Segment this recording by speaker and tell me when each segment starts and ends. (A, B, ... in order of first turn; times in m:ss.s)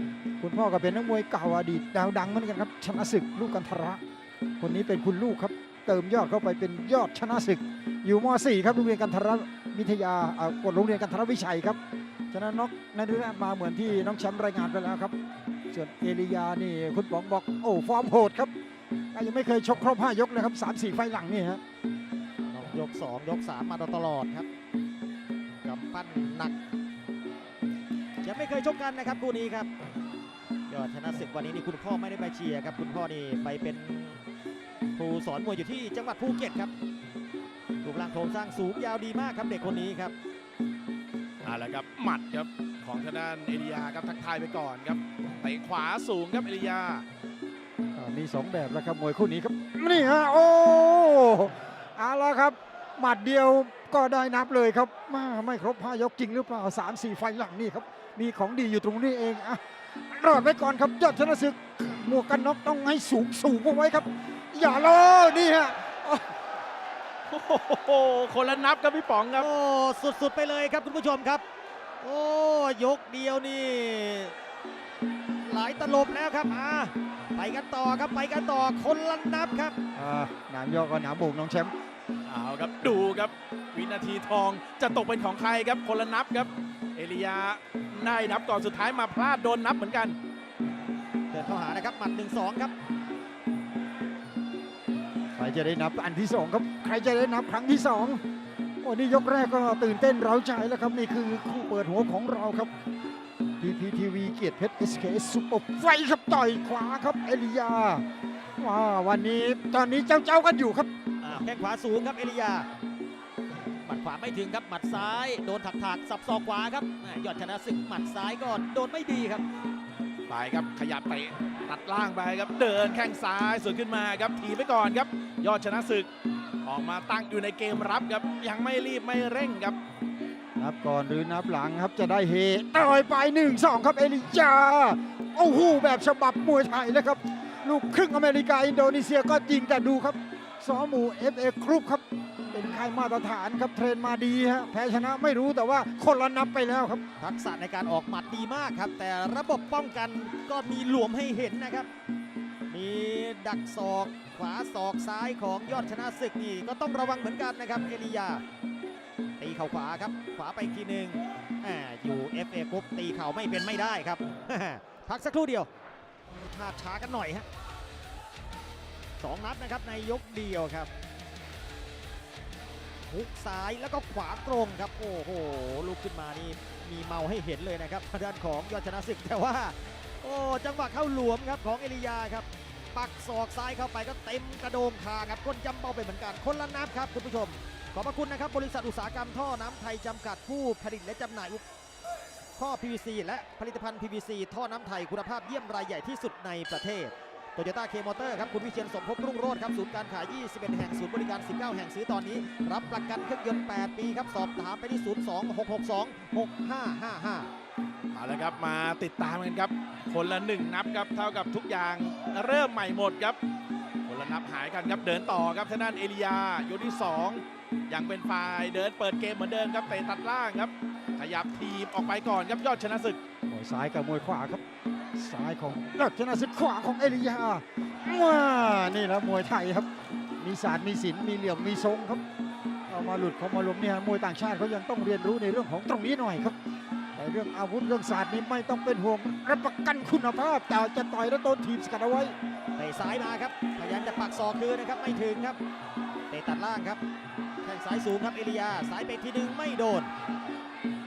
0:00.4-0:04.0 A
0:04.6-0:11.8 A
0:12.3-0:15.1 A
0:15.7-0:18.5 A
0:19.1-0:21.6 A
0:22.5-0:24.5 B
0:25.6-0:26.5 B
0:28.2-0:29.7 B
0:30.7-0:34.2 B
0:35.0-0:36.7 B
0:37.8-0:40.1 B
0:41.4-0:47.0 C
0:47.9-1:06.3 A
1:07.3-1:09.4 C
1:09.4-1:11.4 B
1:12.0-1:14.3 B
1:15.4-1:19.8 B
1:19.9-1:21.7 A
1:22.3-1:30.2 C
1:31.3-1:32.7 B
1:35.3-1:38.2 A
1:38.8-1:42.7 A
1:43.6-1:48.0 A
1:48.6-1:50.9 A
1:51.2-1:52.7 B
1:53.8-1:59.4 B
2:00.3-2:06.1 C
2:06.6-2:09.8 C
2:10.6-2:27.0 A
2:27.2-2:31.9 B
2:32.7-2:38.4 B
2:39.4-2:45.7 B
2:46.5-2:47.4 B
2:49.2-2:50.9 B
2:53.1-3:11.6 B
3:12.6-3:27.5 B
3:28.1-3:33.4 C
3:34.0-3:43.2 C
3:43.5-3:44.6 A
3:45.1-3:52.2 A
3:52.9-3:56.6 A
3:57.2-4:02.3 A
4:02.8-4:05.6 B
4:06.3-4:07.0 B
4:07.6-4:10.1 B